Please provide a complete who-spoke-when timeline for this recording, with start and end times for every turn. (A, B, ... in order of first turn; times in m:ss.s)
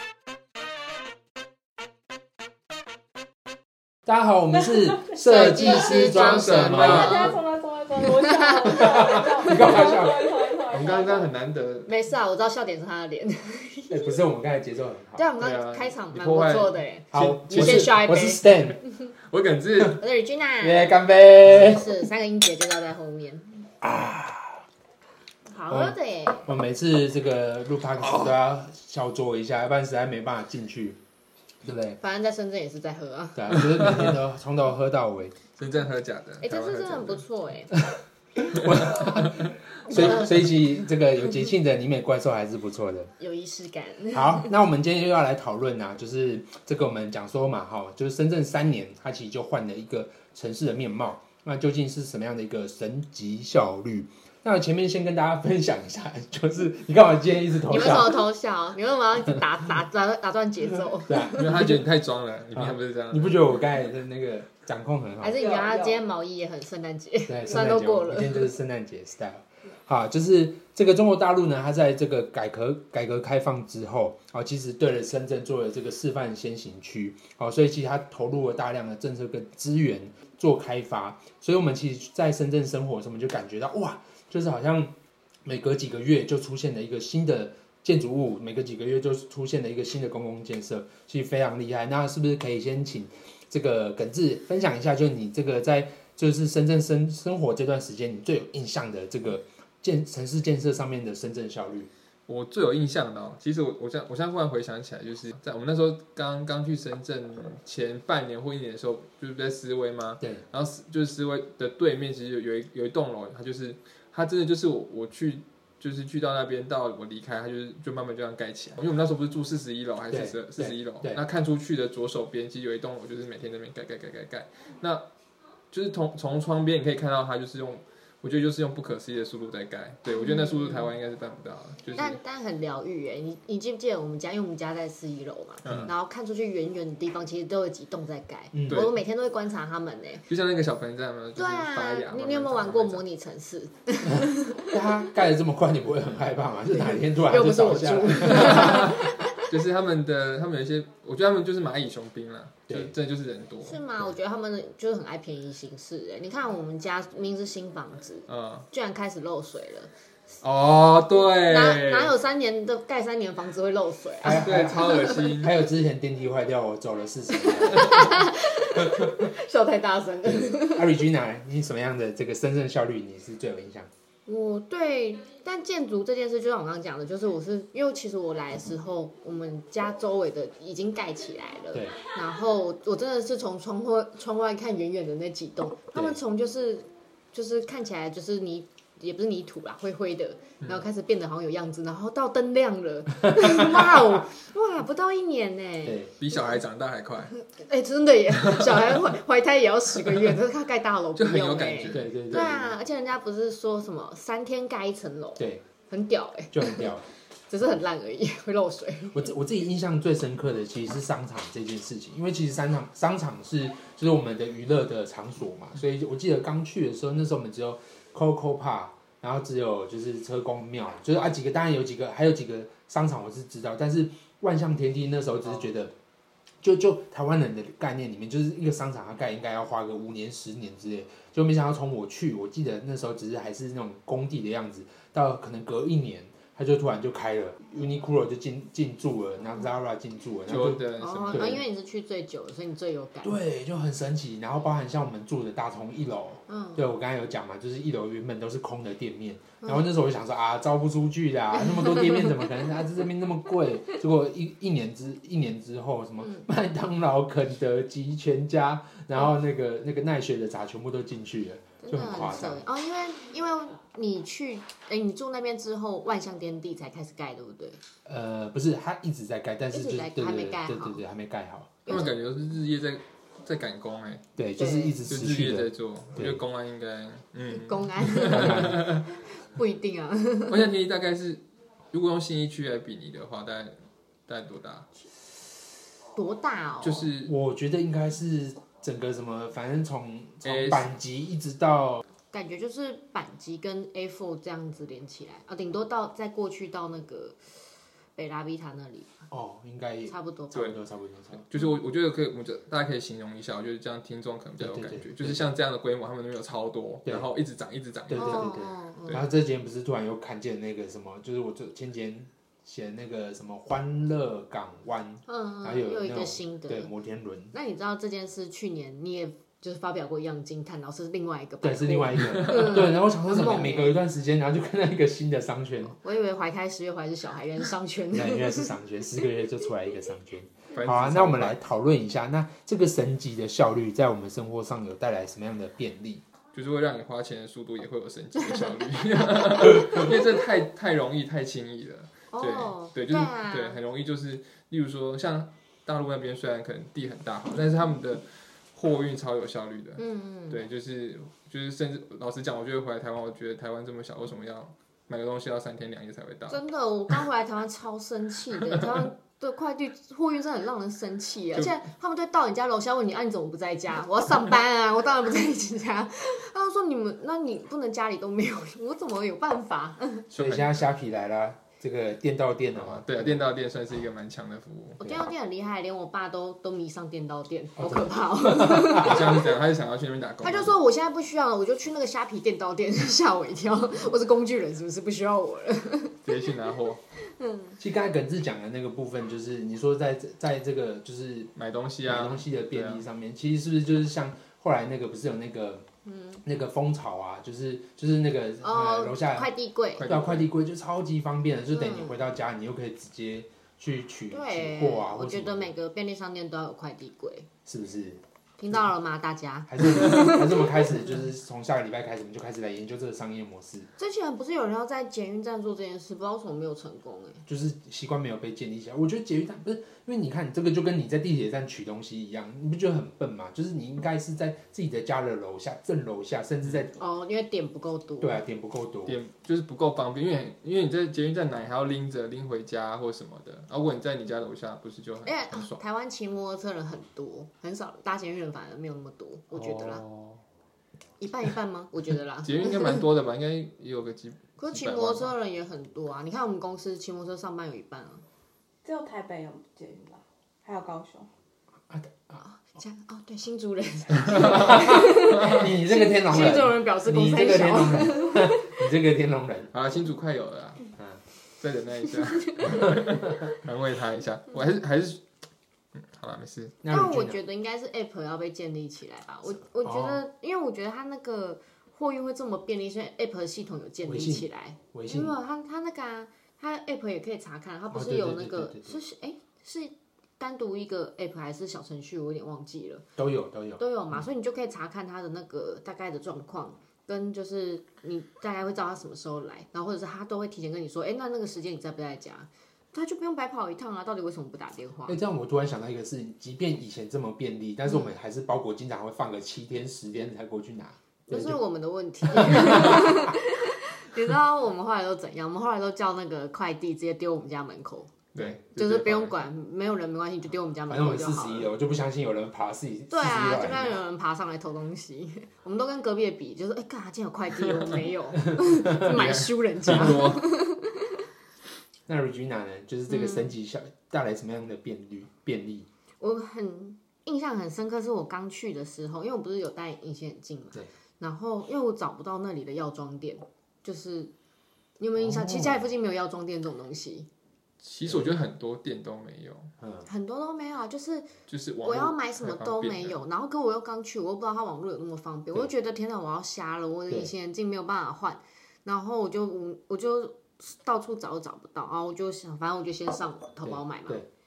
0:04.0-0:07.2 A
0:05.1-0:07.4 B
0:05.5-0:05.8 C
0:05.9-0:07.3 D
0:06.7-0:11.3 C
0:08.0-0:08.8 B
0:08.6-0:10.3 A
0:10.7-0:11.9 D
0:11.8-0:13.9 B
0:13.9-0:15.2 A
0:15.1-0:18.4 B
0:15.4-0:18.0 D
0:17.1-0:18.8 A
0:19.3-0:20.0 D
0:20.0-0:20.9 B
0:20.6-0:21.8 A
0:21.5-0:23.6 B
0:23.8-0:24.6 A
0:25.5-0:26.5 B
0:25.7-0:31.0 A
0:28.0-0:28.3 D
0:31.6-0:32.0 A
0:32.0-0:33.7 B
0:33.3-0:35.4 A
0:33.8-0:34.1 D
0:35.6-0:37.2 D
0:36.4-0:37.8 B
0:38.4-0:43.1 A
0:38.5-0:39.2 B
0:38.6-0:39.0 D
0:39.9-0:40.6 B
0:43.2-0:44.5 B
0:44.1-0:58.2 A
0:57.6-1:01.7 B
1:01.0-1:01.8 A
1:01.3-1:03.6 D
1:02.5-1:05.4 A
1:05.2-1:08.5 B
1:05.3-1:06.0 C
1:07.3-1:24.9 A
1:25.4-1:41.9 A
1:42.3-2:05.0 D
2:00.1-2:01.2 A
2:05.7-2:12.2 D
2:10.1-2:10.9 B
2:12.0-2:20.3 B
2:15.6-2:15.9 D
2:15.7-2:15.9 A
2:18.5-2:18.9 A
2:18.7-2:18.9 D
2:20.3-2:23.0 D
2:21.4-2:24.8 B
2:24.1-2:29.0 A
2:26.7-2:29.5 B
2:28.4-2:33.8 D
2:32.7-2:32.9 A
2:33.6-2:39.9 B
2:38.3-2:38.7 D
2:40.4-2:42.1 D
2:41.4-2:45.4 B
2:44.2-2:49.3 A
2:44.2-2:45.6 D
2:47.4-2:51.0 B
2:50.2-2:53.9 A
2:54.2-3:16.6 B
3:13.2-3:13.6 A
3:15.8-3:16.1 A
3:16.2-3:17.4 D
3:17.4-3:26.9 B
3:18.3-3:19.0 D
3:21.2-3:22.4 D
3:21.9-3:22.7 A
3:25.4-3:25.6 A
3:26.5-3:27.1 A
3:27.5-3:29.3 B
3:29.1-3:45.9 A
3:46.6-4:01.6 A
4:00.5-4:01.6 D
4:01.0-4:03.4 B
4:03.2-4:22.6 A
4:06.5-4:06.8 B
4:11.6-4:12.5 B
4:21.8-4:27.8 B
4:28.0-4:31.8 A
4:29.7-4:31.0 B
4:31.8-4:32.2 B
4:31.9-4:34.3 D
4:34.4-4:36.4 A
4:34.6-4:35.0 B
4:35.1-4:39.1 D
4:37.5-4:40.7 B
4:38.2-4:38.9 A
4:40.5-4:43.7 D
4:44.3-4:44.9 D
4:46.2-4:47.1 B
4:46.8-4:47.3 D
4:47.2-4:52.0 A
4:50.4-4:50.9 D
4:52.3-4:57.4 B
4:58.2-4:59.2 B
4:59.3-5:01.4 A
5:00.1-5:00.7 B
5:00.5-5:00.8 D
5:01.3-5:09.3 D
5:04.6-5:05.4 A
5:08.1-5:17.5 A
5:08.2-5:09.2 B
5:15.3-5:16.9 B
5:17.5-5:24.0 B
5:21.6-5:26.0 A
5:25.9-5:28.7 B
5:28.1-5:36.2 A
5:30.7-5:31.6 D
5:36.5-5:56.6 D
5:38.4-5:39.9 B
5:39.7-5:40.0 A
5:42.3-5:43.8 B
5:50.0-5:50.6 B
5:56.5-6:10.3 B
6:10.3-6:13.4 A
6:10.3-6:10.8 D
6:12.7-6:15.0 D
6:15.0-6:19.5 B
6:17.8-6:19.3 A
6:18.9-6:20.7 D
6:20.4-6:26.2 B
6:26.2-6:27.0 D
6:27.2-6:27.8 B
6:27.8-6:31.5 A
6:31.6-6:33.0 D
6:32.0-6:35.8 A
6:36.0-6:36.4 B
6:36.4-6:39.5 A
6:38.6-6:40.1 B
6:40.0-6:40.5 D
6:40.0-6:45.7 A
6:41.7-6:42.2 B
6:44.3-6:47.5 B
6:47.6-6:48.2 A
6:48.6-6:51.1 B
6:49.7-6:53.9 A
6:54.0-6:57.4 B
6:57.4-7:07.0 A
7:07.0-7:08.4 B
7:08.2-7:09.2 A
7:09.0-7:15.8 D
7:15.2-7:20.0 B
7:19.5-7:20.4 D
7:21.2-7:23.0 B
7:22.4-7:25.3 D
7:24.6-7:28.2 B
7:28.8-7:31.3 C
7:31.9-7:32.4 A
7:32.4-7:38.8 B
7:34.3-7:39.7 A
7:34.3-7:34.8 D
7:39.7-7:40.9 D
7:41.6-7:45.2 D
7:42.1-7:42.9 B
7:45.9-7:46.8 D
7:46.8-7:47.4 A
7:46.9-8:03.0 B
7:49.8-7:50.2 A
7:54.0-7:55.4 A
7:57.9-7:59.0 A
8:03.2-8:03.8 A
8:03.8-8:15.2 B
8:15.0-8:21.6 A
8:17.9-8:18.1 B
8:21.3-8:31.7 B
8:22.3-8:23.3 A
8:28.3-8:29.4 D
8:28.4-8:28.6 A
8:30.9-8:34.0 A
8:33.1-8:41.2 B
8:37.6-8:38.0 D
8:38.5-8:39.1 A
8:38.9-8:40.5 D
8:42.1-8:45.9 A
8:43.1-8:43.5 B
8:46.2-8:54.3 B
8:55.0-8:57.3 B
8:55.1-8:55.8 A
8:57.8-8:59.7 D
8:58.0-8:58.3 A
8:59.8-9:00.1 A
9:00.0-9:14.2 B
9:01.5-9:03.2 D
9:13.6-9:14.3 A